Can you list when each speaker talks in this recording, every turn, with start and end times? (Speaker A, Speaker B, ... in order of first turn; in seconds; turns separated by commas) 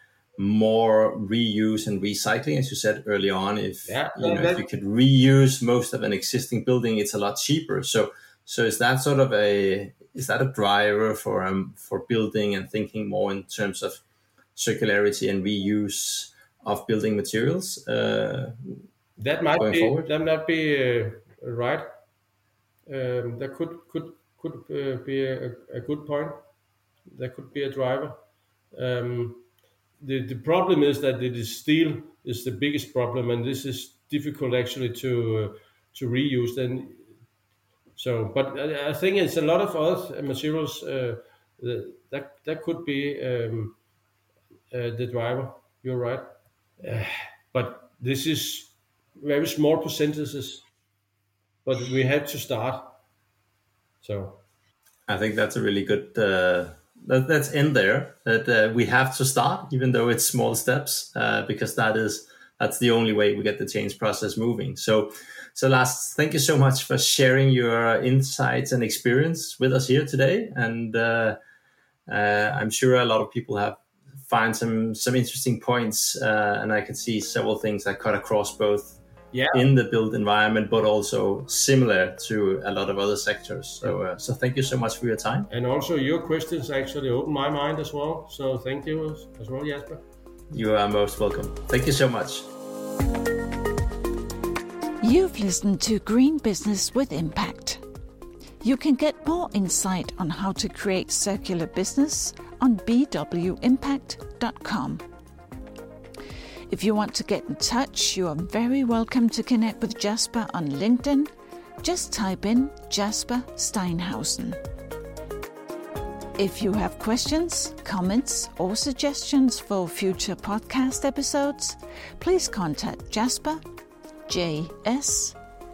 Speaker A: 0.4-14.0, Speaker B: 3.9-4.7, Speaker A: 14.6-18.8, Speaker B: 19.2-21.9, Speaker A: 19.6-20.1, Speaker B: 22.9-26.4, Speaker B: 27.1-28.2, Speaker B: 28.7-29.4, Speaker B: 30.0-37.1, Speaker B: 38.0-43.8, Speaker B: 44.7-46.3, Speaker B: 46.8-50.7, Speaker B: 51.6-53.0, Speaker B: 54.0-54.4, Speaker A: 55.1-71.4, Speaker A: 72.1-79.0, Speaker B: 79.3-79.7, Speaker A: 79.5-85.5, Speaker B: 85.5-90.0, Speaker A: 90.5-92.5, Speaker C: 95.0-97.8, Speaker C: 98.6-105.0, Speaker C: 106.7-111.3, Speaker C: 111.8-114.6, Speaker C: 116.4-123.6, Speaker C: 124.3-125.4